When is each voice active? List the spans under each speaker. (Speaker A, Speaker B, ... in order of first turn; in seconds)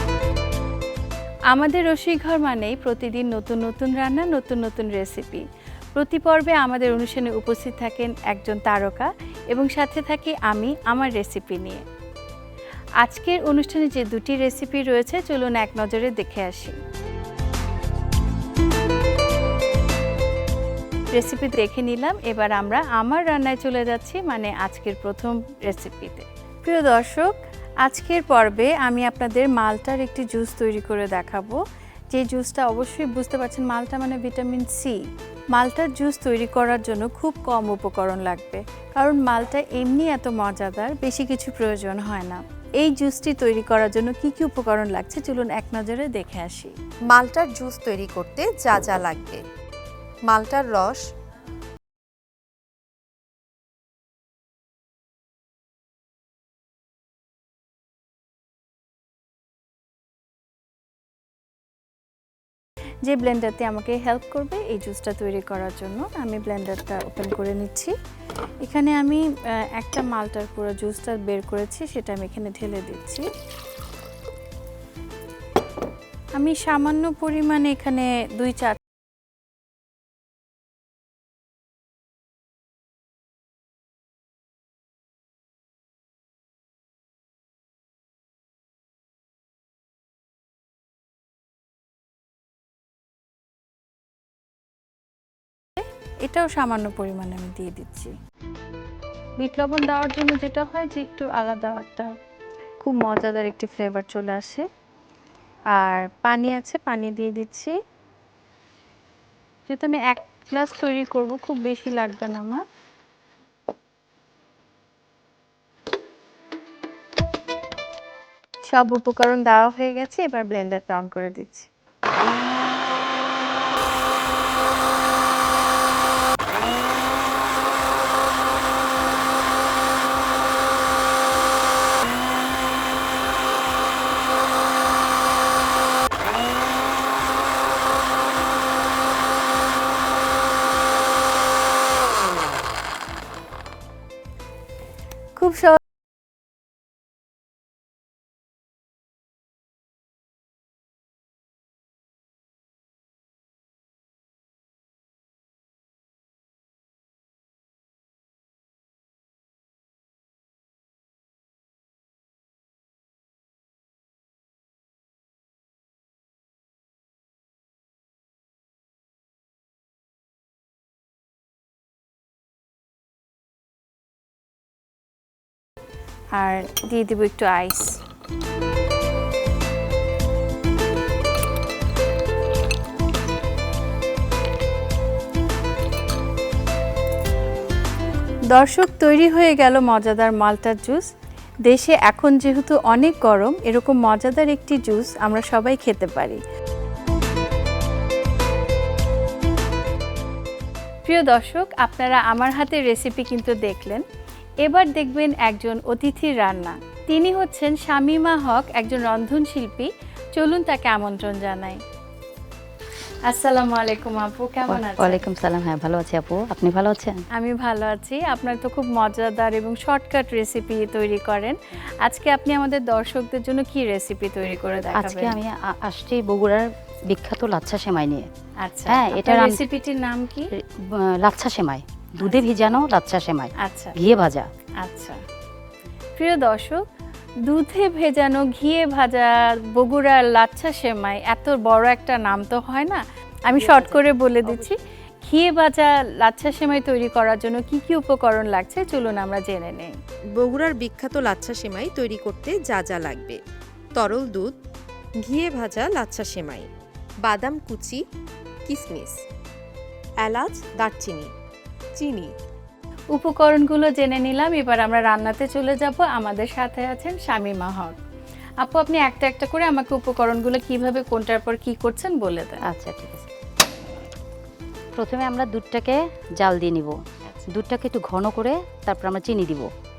Speaker A: 1.5-11.8, 13.0-16.8, 21.1-27.3, 27.8-31.6, 32.1-35.0, 35.5-46.7, 63.0-67.9, 68.6-73.3, 76.3-78.8, 96.2-98.1, 99.4-102.1, 102.8-104.7, 105.7-107.8, 109.7-112.6, 118.7-121.7, 145.3-145.8, 176.3-178.0, 188.5-191.1, 191.6-196.4, 201.0-204.0, 204.6-211.8, 213.3-215.2, 217.3-225.4, 228.6-230.5, 233.6-234.0, 234.8-235.2, 236.2-236.8, 237.4-249.9, 263.1-267.9, 268.6-272.6
Speaker B: 47.1-49.4, 50.2-51.1, 250.3-253.4, 253.9-254.6, 255.2-256.7, 257.2-258.1, 258.6-259.2, 260.2-261.3, 261.9-262.3
Speaker C: 214.7-217.2, 224.9-228.3, 228.9-229.6, 230.6-234.5, 243.5-244.8, 272.6-273.3, 274.9-277.0, 277.5-279.7